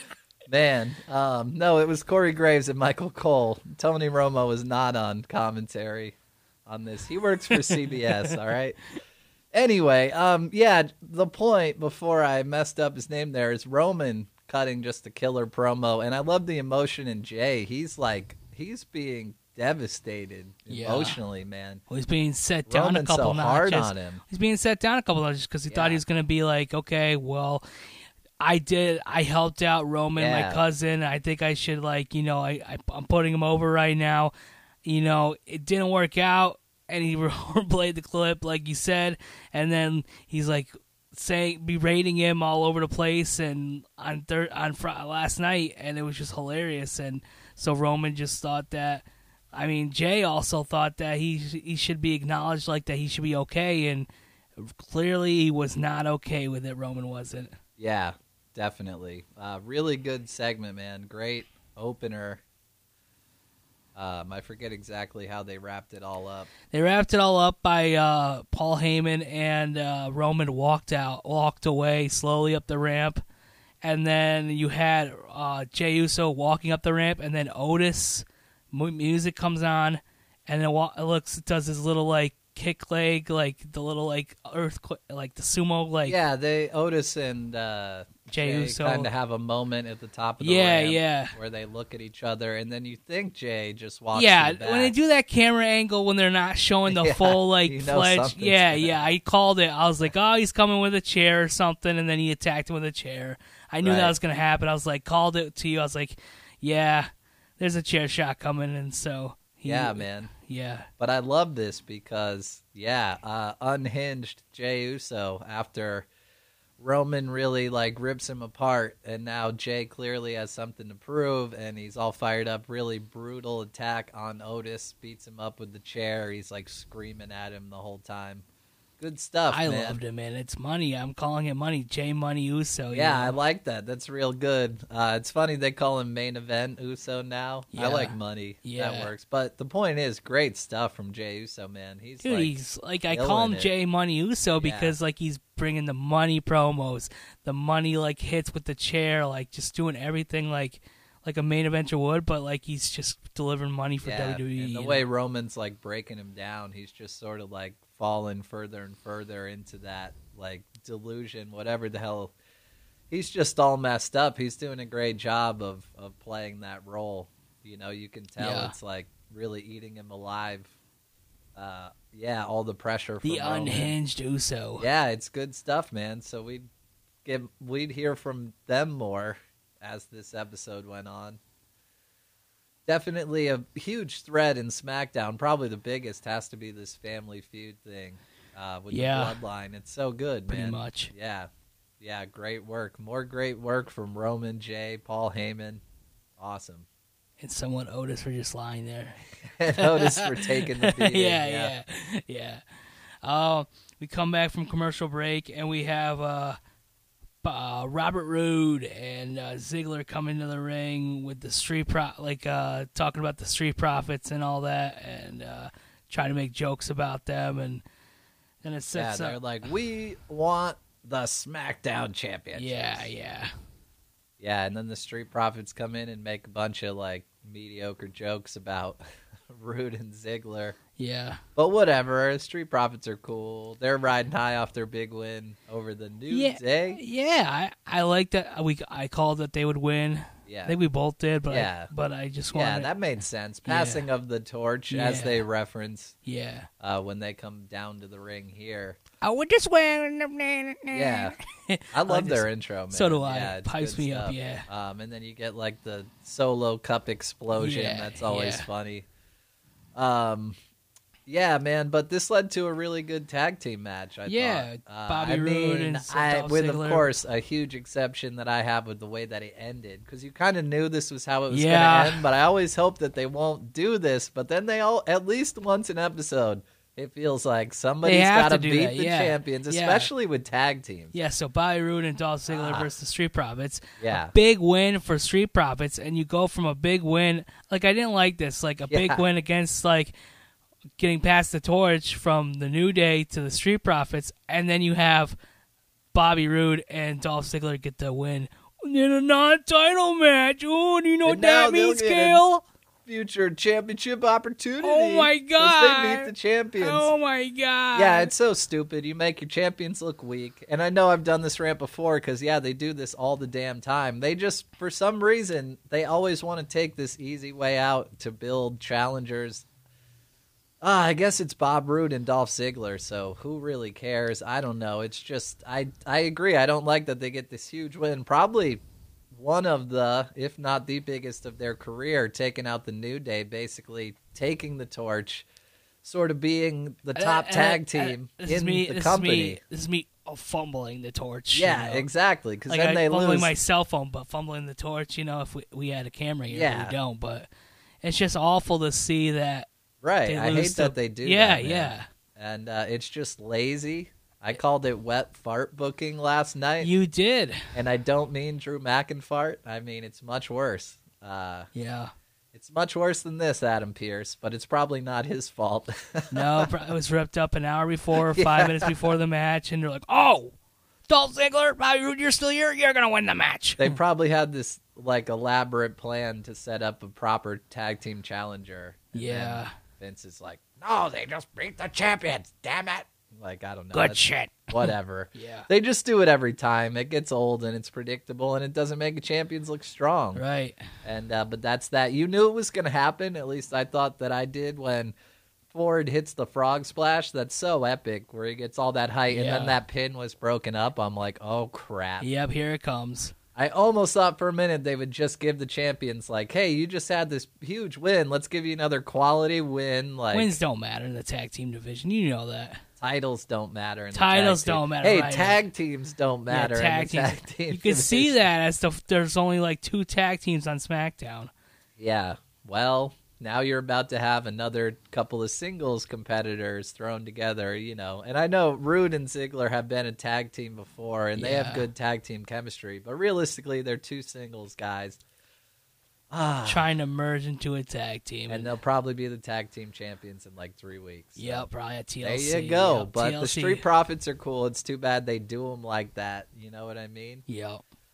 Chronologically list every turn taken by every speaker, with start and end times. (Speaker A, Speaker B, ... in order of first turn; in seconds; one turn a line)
Speaker A: 0.5-8.8
Speaker B: 7.6-8.3
Speaker A: 9.5-21.8
Speaker B: 20.7-21.2
Speaker B: 21.9-27.6
Speaker A: 22.7-24.2
Speaker A: 25.7-26.0
Speaker B: 28.4-34.3
Speaker A: 30.2-30.6
Speaker B: 34.9-54.1
Speaker B: 54.6-57.6
Speaker A: 57.8-62.4
Speaker A: 64.0-66.5
Speaker B: 66.7-73.2
Speaker B: 73.8-86.2
Speaker A: 86.0-94.9
Speaker B: 88.3-89.1
Speaker B: 90.4-91.3
Speaker B: 94.1-110.9
Speaker A: 96.9-98.9
Speaker A: 103.8-104.2
Speaker A: 109.7-110.3
Speaker A: 111.0-116.1
Speaker A: 116.8-128.4
Speaker A: 129.0-130.0
Speaker B: 129.5-133.4
Speaker A: 132.9-143.7
Speaker B: 137.7-139.1
Speaker B: 142.2-155.0
Speaker A: 144.6-145.0
Speaker A: 154.0-162.3
Speaker A: 163.1-170.7
Speaker B: 168.4-168.8
Speaker A: 171.6-173.9
Speaker B: 173.2-174.9
Speaker A: 174.8-176.7
Speaker A: 177.2-181.4
Speaker A: 182.9-191.5
Speaker B: 188.9-189.4
Speaker B: 190.5-191.1
Speaker A: 192.0-195.8
Speaker A: 196.4-196.9
Speaker B: 197.4-199.2
Speaker A: 199.4-201.7
Speaker B: 199.8-202.6
Speaker B: 203.2-206.6
Speaker B: 207.4-217.8
Speaker B: 218.6-219.4
Speaker A: 218.9-223.1
Speaker B: 222.6-223.5
Speaker A: 224.4-230.8
Speaker B: 231.0-231.4
Speaker A: 231.6-237.0
Speaker B: 236.3-242.9
Speaker A: 240.5-240.8
Speaker A: 241.5-241.9
Speaker A: 242.5-246.2
Speaker B: 243.7-244.1
Speaker B: 244.9-245.4
Speaker B: 246.2-246.7
Speaker A: 246.8-249.0
Speaker B: 249.2-254.7
Speaker A: 250.9-251.3
Speaker A: 251.9-259.1
Speaker B: 257.6-258.7
Speaker A: 259.9-260.6
Speaker A: 261.3-281.1
Speaker B: 264.3-267.1
Speaker B: 271.5-272.2
Speaker B: 278.0-280.1
Speaker B: 281.1-290.1
Speaker A: 282.5-282.9
Speaker A: 284.0-284.3
Speaker A: 288.9-289.2
Speaker B: 291.0-295.4
Speaker B: 296.1-302.6
Speaker A: 301.2-302.4
Speaker A: 303.1-307.1
Speaker B: 304.8-308.3
Speaker A: 307.9-319.6
Speaker A: 320.8-335.5
Speaker A: 336.0-339.6
Speaker B: 337.1-342.1
Speaker A: 341.5-343.5
Speaker B: 342.7-347.5
Speaker A: 346.5-347.0
Speaker B: 348.0-349.7
Speaker A: 350.0-356.9
Speaker B: 350.3-352.1
Speaker B: 356.8-357.7
Speaker A: 357.7-361.7
Speaker B: 361.7-362.1
Speaker A: 362.5-366.7
Speaker B: 366.3-370.6
Speaker A: 368.2-368.9
Speaker B: 371.1-374.0
Speaker A: 373.8-390.4
Speaker B: 379.1-379.7
Speaker B: 383.9-385.7
Speaker B: 390.4-390.9
Speaker A: 391.0-395.1
Speaker A: 395.7-402.3
Speaker B: 399.3-399.8
Speaker B: 402.2-403.3
Speaker A: 403.6-410.6
Speaker B: 410.3-412.8
Speaker A: 413.0-418.5
Speaker B: 414.1-415.6
Speaker B: 416.5-421.5
Speaker A: 422.0-435.2
Speaker B: 431.4-431.9
Speaker A: 436.3-436.9
Speaker B: 436.6-438.7
Speaker A: 438.5-441.7
Speaker B: 441.4-443.9
Speaker A: 442.2-447.4
Speaker B: 447.5-447.8